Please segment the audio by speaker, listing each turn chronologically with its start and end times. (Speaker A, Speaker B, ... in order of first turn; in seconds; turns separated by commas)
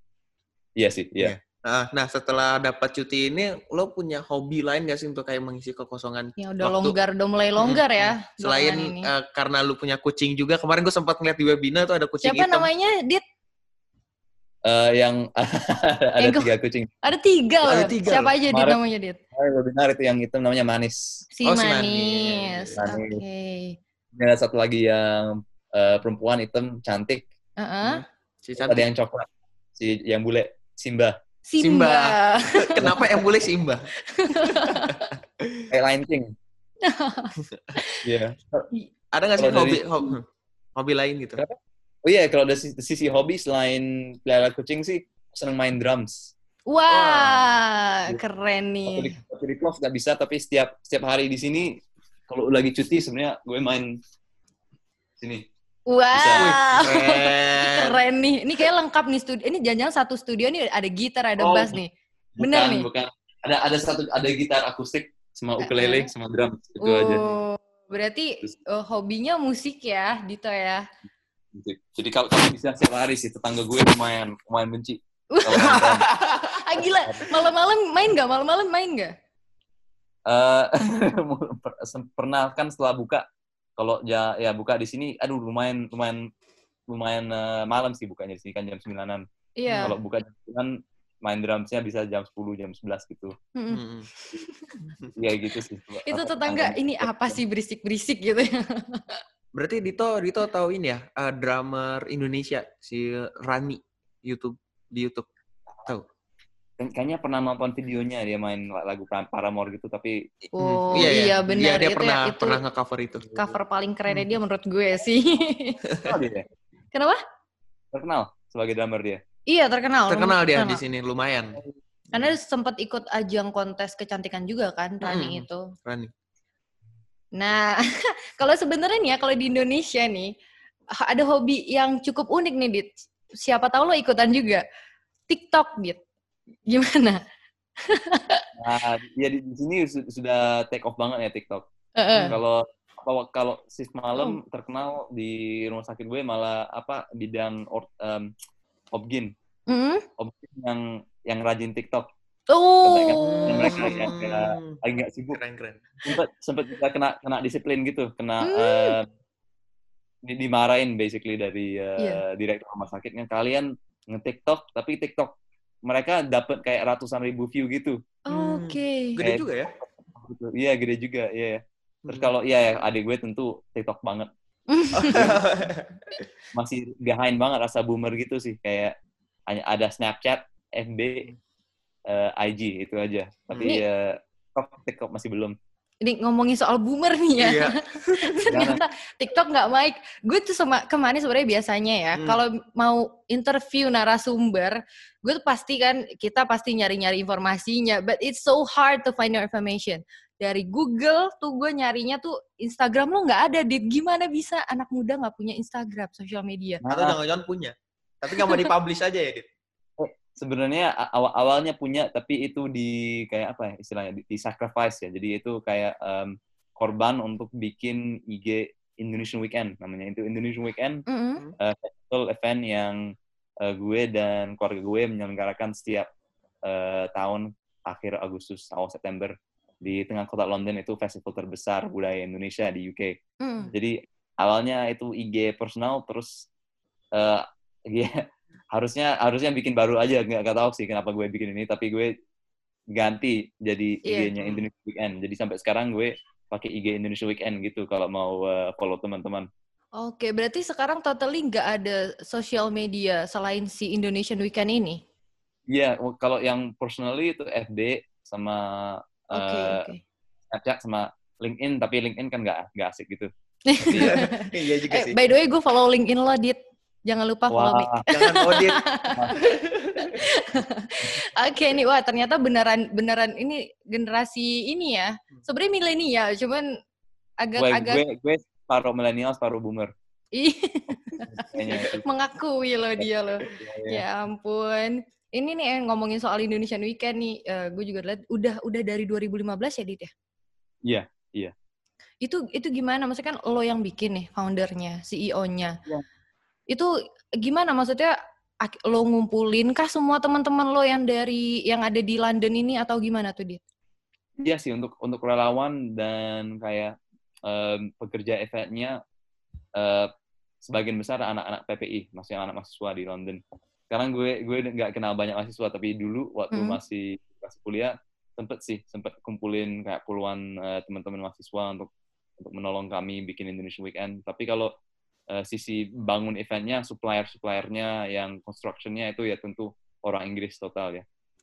Speaker A: 0.8-1.4, Speaker B: 1.2-7.0, Speaker C: 6.4-9.1, Speaker B: 7.6-12.7, Speaker C: 12.2-13.2, Speaker A: 14.7-17.0, Speaker C: 16.2-16.5, Speaker C: 17.0-19.2, Speaker A: 17.6-17.9, Speaker B: 17.7-18.4, Speaker A: 18.5-18.8, Speaker A: 19.4-21.0, Speaker C: 21.4-23.8, Speaker B: 21.4-22.8, Speaker A: 22.8-23.2, Speaker A: 24.1-27.3, Speaker C: 27.6-28.0, Speaker B: 27.8-28.9, Speaker A: 28.6-31.2, Speaker C: 31.5-33.1, Speaker B: 31.6-35.7, Speaker C: 34.1-35.1, Speaker A: 35.7-36.3, Speaker C: 36.8-38.1, Speaker B: 37.4-37.8, Speaker A: 38.0-38.7, Speaker B: 39.1-40.2, Speaker A: 39.4-40.1, Speaker B: 40.8-41.4, Speaker A: 41.4-46.3, Speaker C: 46.7-49.2, Speaker B: 46.9-47.5, Speaker A: 48.9-51.7, Speaker A: 52.3-53.9, Speaker A: 55.2-55.5, Speaker C: 55.9-62.9, Speaker A: 56.1-56.5, Speaker B: 56.4-58.0, Speaker A: 61.4-61.8, Speaker A: 62.4-67.2, Speaker C: 65.6-66.1, Speaker C: 66.8-70.8, Speaker A: 71.5-76.1, Speaker C: 75.3-76.0, Speaker B: 75.5-76.6, Speaker C: 76.5-79.1, Speaker A: 77.1-77.3, Speaker A: 80.3-83.2, Speaker A: 83.8-86.2, Speaker A: 86.9-89.2, Speaker C: 89.6-90.0, Speaker B: 89.7-89.9, Speaker A: 89.8-93.3, Speaker C: 93.5-94.7, Speaker B: 93.7-94.1, Speaker B: 94.8-95.1, Speaker A: 95.2-97.4, Speaker C: 96.1-99.2, Speaker B: 99.5-105.3, Speaker A: 106.8-110.2, Speaker B: 110.5-113.4, Speaker C: 110.6-112.6, Speaker C: 113.3-115.8, Speaker B: 114.1-114.4, Speaker A: 116.0-116.5, Speaker C: 116.9-117.2, Speaker A: 117.9-119.2, Speaker C: 119.5-120.8, Speaker B: 120.1-121.6, Speaker C: 122.1-125.7, Speaker B: 125.0-126.1, Speaker C: 127.3-130.3, Speaker C: 131.0-132.9, Speaker C: 133.4-134.6, Speaker C: 135.3-136.0, Speaker C: 136.7-137.2, Speaker C: 137.9-138.4, Speaker A: 138.6-148.3, Speaker C: 142.0-142.4, Speaker A: 148.9-149.3, Speaker C: 149.7-150.1, Speaker A: 150.2-152.1, Speaker C: 152.5-154.1, Speaker A: 152.8-155.4, Speaker B: 153.2-154.8, Speaker B: 155.3-156.0, Speaker A: 156.1-159.1, Speaker C: 158.4-159.0, Speaker A: 160.2-165.3, Speaker A: 165.9-168.0, Speaker C: 168.3-169.2, Speaker B: 168.3-169.7, Speaker A: 169.2-174.3, Speaker B: 172.1-172.3, Speaker C: 174.7-175.4, Speaker B: 175.0-175.9, Speaker A: 176.5-178.9, Speaker A: 179.5-181.3, Speaker A: 182.1-185.6, Speaker C: 186.0-206.8, Speaker B: 187.4-188.5, Speaker A: 188.5-188.8, Speaker B: 192.2-192.4, Speaker A: 206.8-207.2, Speaker B: 206.9-209.5, Speaker A: 210.0-221.0, Speaker C: 221.1-221.4, Speaker A: 221.6-223.0, Speaker A: 223.6-226.1, Speaker A: 226.7-233.2, Speaker C: 233.4-233.7, Speaker A: 233.7-236.3, Speaker A: 237.2-238.1, Speaker A: 238.7-242.1, Speaker A: 242.9-249.5, Speaker C: 244.1-244.3, Speaker B: 244.4-244.7, Speaker C: 250.0-255.0, Speaker A: 255.7-259.9, Speaker C: 259.3-260.0, Speaker A: 260.5-263.3, Speaker C: 263.7-269.3, Speaker A: 263.9-264.2, Speaker B: 263.9-265.3, Speaker A: 267.5-268.0, Speaker B: 268.1-268.8, Speaker B: 269.4-270.2, Speaker C: 270.1-276.7, Speaker C: 277.4-278.0, Speaker A: 277.6-279.9, Speaker C: 280.3-290.1, Speaker A: 281.3-282.1, Speaker A: 283.5-284.1, Speaker A: 290.9-291.5, Speaker C: 292.2-295.8, Speaker C: 296.7-303.6, Speaker A: 304.4-306.9, Speaker A: 307.5-309.0, Speaker A: 309.8-310.1, Speaker A: 310.6-321.9, Speaker C: 316.5-316.8, Speaker A: 322.4-324.7, Speaker A: 325.3-331.1